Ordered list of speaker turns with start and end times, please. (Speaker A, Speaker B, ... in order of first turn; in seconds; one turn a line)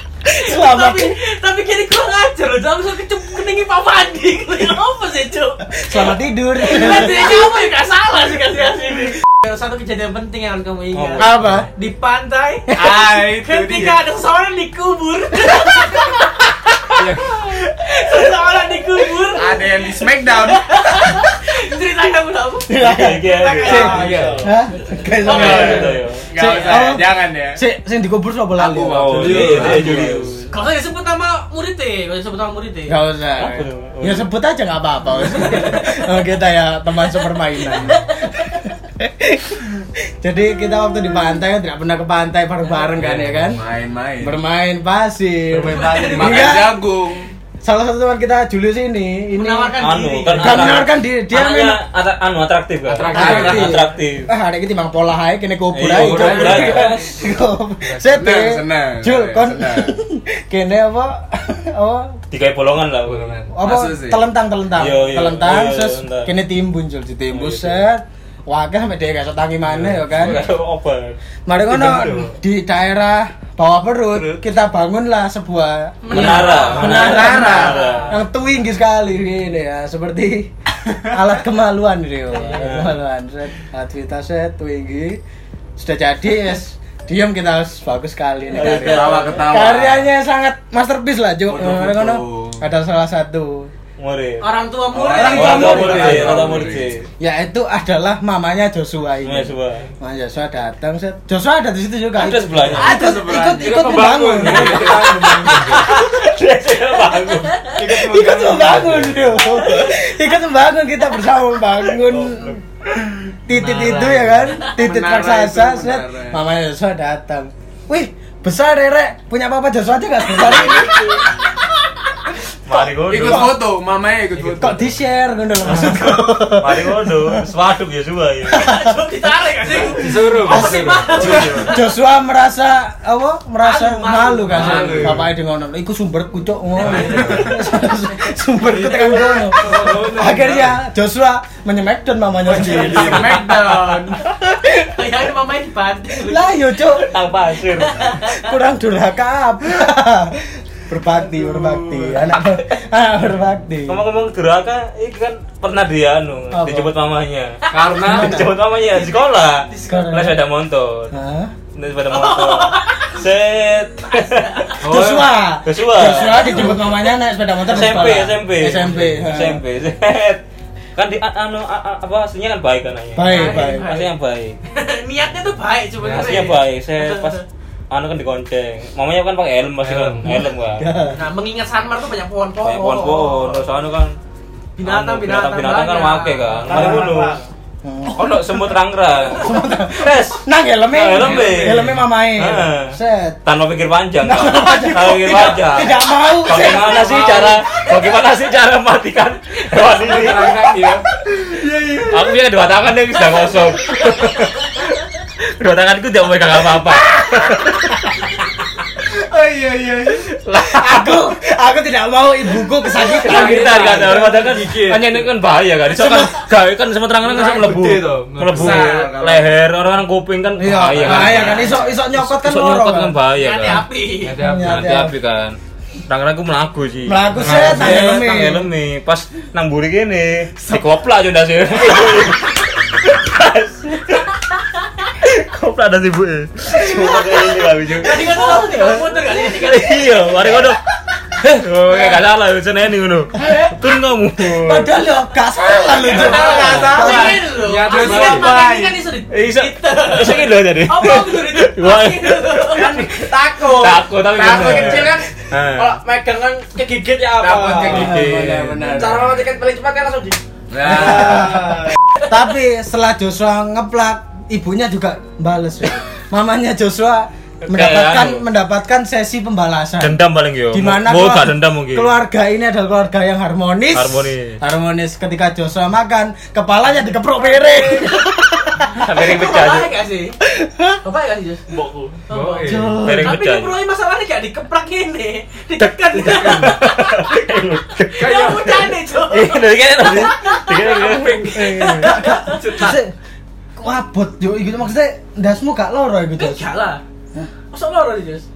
Speaker A: 0.3-1.1
Speaker B: 0.3-24.4
Speaker A: 5.8-7.5
Speaker C: 10.9-11.7
Speaker A: 11.2-11.7
Speaker D: 12.7-14.0
Speaker E: 16.9-17.4
Speaker D: 19.3-21.1
Speaker A: 22.7-29.7
Speaker C: 22.8-24.5
Speaker E: 23.7-24.5
Speaker B: 25.0-25.9
Speaker C: 25.2-26.2
Speaker D: 25.2-27.6
Speaker D: 28.6-30.5
Speaker C: 28.8-30.4
Speaker E: 29.2-30.1
Speaker B: 30.5-33.0
Speaker A: 32.9-43.6
Speaker C: 33.4-34.3
Speaker E: 42.9-43.6
Speaker D: 43.5-44.4
Speaker A: 44.2-46.8
Speaker E: 45.5-46.6
Speaker B: 45.7-46.6
Speaker D: 46.1-47.3
Speaker A: 47.6-49.8
Speaker B: 49.3-50.8
Speaker C: 49.8-54.3
Speaker A: 50.4-51.8
Speaker E: 52.9-53.8
Speaker A: 53.1-62.2
Speaker C: 55.7-57.1
Speaker E: 55.9-57.0
Speaker D: 56.4-56.8
Speaker D: 58.1-60.0
Speaker C: 62.3-63.4
Speaker E: 63.0-63.5
Speaker A: 63.5-70.5
Speaker D: 63.6-64.2
Speaker C: 64.8-66.3
Speaker C: 67.3-67.8
Speaker E: 69.7-70.0
Speaker C: 70.0-71.2
Speaker A: 71.5-80.5
Speaker E: 71.7-72.3
Speaker B: 76.0-78.2
Speaker C: 76.1-78.1
Speaker D: 76.8-77.8
Speaker A: 81.0-85.2
Speaker C: 82.5-83.0
Speaker A: 85.8-93.7
Speaker C: 88.5-89.5
Speaker D: 88.5-90.1
Speaker D: 91.5-92.7
Speaker C: 94.0-94.5
Speaker B: 94.4-96.2
Speaker D: 94.9-97.1
Speaker A: 95.0-96.6
Speaker C: 95.2-97.0
Speaker A: 97.2-105.2
Speaker C: 99.2-99.9
Speaker C: 102.2-103.1
Speaker D: 102.6-104.8
Speaker E: 103.6-106.0
Speaker C: 104.4-107.8
Speaker E: 107.8-109.3
Speaker A: 107.8-112.6
Speaker D: 107.8-108.8
Speaker C: 109.4-109.9
Speaker C: 112.0-112.5
Speaker A: 113.5-121.2
Speaker B: 113.5-114.7
Speaker D: 114.6-116.4
Speaker B: 120.5-121.4
Speaker C: 122.7-123.6
Speaker D: 123.1-125.0
Speaker A: 123.2-123.6
Speaker A: 124.3-127.4
Speaker C: 126.6-128.7
Speaker B: 128.5-131.8
Speaker A: 128.5-128.9
Speaker E: 129.9-131.2
Speaker C: 131.1-131.7
Speaker D: 131.2-131.6
Speaker A: 131.5-143.4
Speaker B: 133.6-135.1
Speaker E: 134.5-135.3
Speaker E: 136.8-137.5
Speaker D: 136.9-137.5
Speaker E: 138.7-140.8
Speaker E: 142.4-143.5
Speaker D: 142.7-144.2
Speaker A: 144.4-144.9
Speaker B: 144.8-146.7
Speaker A: 146.2-147.1
Speaker C: 147.0-148.1
Speaker B: 147.8-148.5
Speaker A: 148.3-154.0
Speaker D: 151.2-152.3
Speaker C: 153.9-161.1
Speaker A: 156.5-156.9
Speaker B: 157.7-157.9
Speaker E: 157.7-158.4
Speaker A: 158.0-158.5
Speaker B: 159.0-160.1
Speaker A: 159.8-160.4
Speaker A: 161.1-161.5
Speaker C: 161.7-164.7
Speaker B: 162.1-163.2
Speaker B: 164.1-164.7
Speaker E: 164.8-165.3
Speaker A: 164.8-169.6
Speaker C: 165.7-166.8
Speaker C: 167.6-170.4
Speaker E: 168.7-169.2
Speaker C: 170.9-174.6
Speaker A: 173.1-173.9
Speaker B: 173.3-174.1
Speaker B: 174.7-177.4
Speaker E: 176.0-176.4
Speaker C: 176.1-180.9
Speaker E: 179.8-180.4
Speaker A: 180.8-181.2
Speaker B: 181.1-183.7
Speaker C: 182.6-184.2
Speaker B: 184.8-186.9
Speaker C: 184.8-187.4
Speaker A: 186.7-187.2
Speaker D: 186.7-187.3
Speaker A: 187.8-193.4
Speaker C: 188.1-200.7
Speaker E: 191.2-192.0
Speaker A: 194.2-197.5
Speaker B: 196.6-197.6
Speaker E: 199.8-201.0
Speaker D: 201.4-202.3
Speaker C: 202.1-204.7
Speaker C: 205.6-208.0
Speaker D: 209.1-210.3
Speaker C: 210.4-211.1
Speaker A: 210.5-214.5
Speaker E: 213.1-215.3
Speaker C: 213.2-223.9
Speaker A: 215.9-216.4
Speaker E: 217.2-218.9
Speaker D: 218.5-219.5
Speaker A: 220.6-223.2
Speaker E: 221.0-221.9
Speaker D: 221.1-221.4
Speaker B: 223.3-224.4
Speaker E: 224.2-224.9
Speaker A: 224.4-225.1
Speaker C: 224.5-234.2
Speaker A: 227.1-228.7
Speaker E: 227.3-228.1
Speaker C: 235.2-238.9
Speaker B: 238.0-240.3
Speaker C: 239.4-240.8
Speaker C: 241.4-244.9
Speaker A: 243.4-243.7
Speaker A: 244.4-247.5
Speaker D: 246.0-249.0
Speaker B: 246.0-253.0
Speaker F: 246.2-247.0
Speaker E: 247.5-248.5
Speaker C: 249.3-256.0
Speaker F: 252.8-258.0
Speaker D: 254.1-255.2
Speaker D: 257.4-258.2
Speaker C: 257.9-259.0
Speaker A: 257.9-259.2
Speaker F: 258.9-260.4
Speaker D: 260.7-261.8
Speaker A: 260.8-270.2
Speaker C: 267.6-268.4
Speaker C: 270.0-272.1
Speaker A: 270.7-278.9
Speaker C: 273.9-274.6
Speaker C: 278.9-279.9
Speaker B: 279.0-280.3
Speaker A: 280.5-281.0
Speaker B: 281.0-281.6
Speaker F: 281.7-282.2
Speaker B: 282.3-292.9
Speaker E: 282.3-283.0
Speaker A: 282.6-283.4
Speaker C: 283.0-283.8
Speaker C: 285.8-291.6
Speaker E: 286.1-286.8
Speaker E: 288.2-288.8
Speaker E: 290.8-293.0
Speaker A: 291.5-293.1
Speaker A: 293.8-296.6
Speaker B: 296.4-297.0
Speaker B: 297.7-298.4